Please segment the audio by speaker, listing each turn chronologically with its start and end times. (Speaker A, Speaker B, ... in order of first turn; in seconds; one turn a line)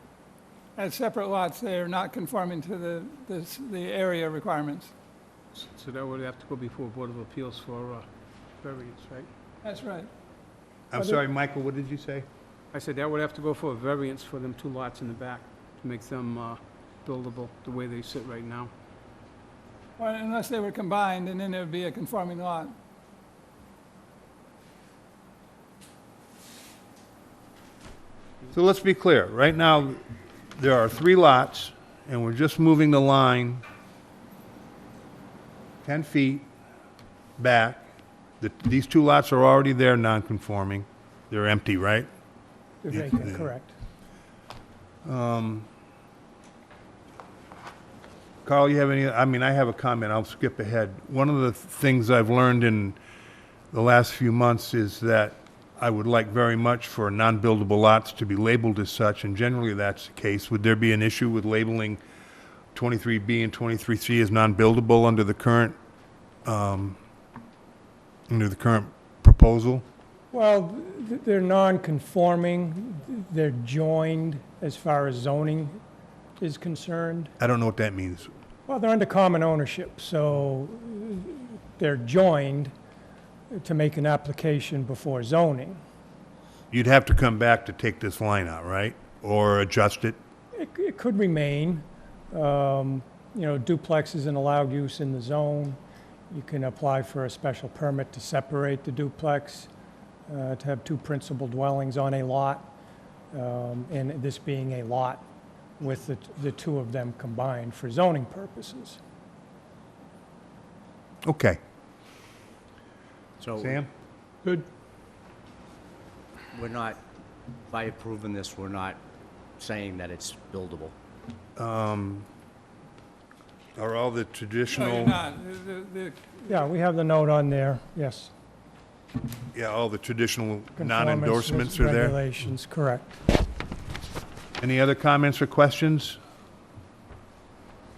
Speaker A: 0.8-4.9
Speaker B: 5.5-8.1
Speaker B: 8.6-9.3
Speaker A: 9.6-10.1
Speaker C: 10.9-12.3
Speaker D: 10.9-11.2
Speaker B: 12.7-18.7
Speaker A: 20.0-22.8
Speaker C: 28.5-33.6
Speaker C: 35.8-36.5
Speaker C: 37.4-37.9
Speaker C: 38.4-42.1
Speaker D: 42.8-43.7
Speaker C: 42.9-43.5
Speaker C: 45.0-45.7
Speaker C: 48.5-53.0
Speaker C: 53.7-62.0
Speaker C: 62.7-65.8
Speaker C: 66.4-67.0
Speaker C: 68.3-69.8
Speaker D: 70.3-75.8
Speaker D: 76.4-77.3
Speaker C: 77.4-78.3
Speaker D: 78.7-82.7
Speaker D: 83.5-85.8
Speaker C: 86.7-90.2
Speaker D: 90.5-95.8
Speaker D: 96.3-99.7
Speaker D: 100.3-102.7
Speaker D: 103.3-105.2
Speaker D: 105.8-109.0
Speaker C: 111.2-111.6
Speaker E: 113.4-113.8
Speaker C: 113.6-113.9
Speaker E: 116.5-117.0
Speaker E: 117.7-119.0
Speaker E: 119.6-120.9
Speaker C: 121.6-122.3
Speaker C: 123.8-125.2
Speaker A: 124.7-126.7
Speaker D: 126.5-128.3
Speaker C: 129.5-132.2
Speaker D: 130.8-133.2
Speaker C: 134.6-136.2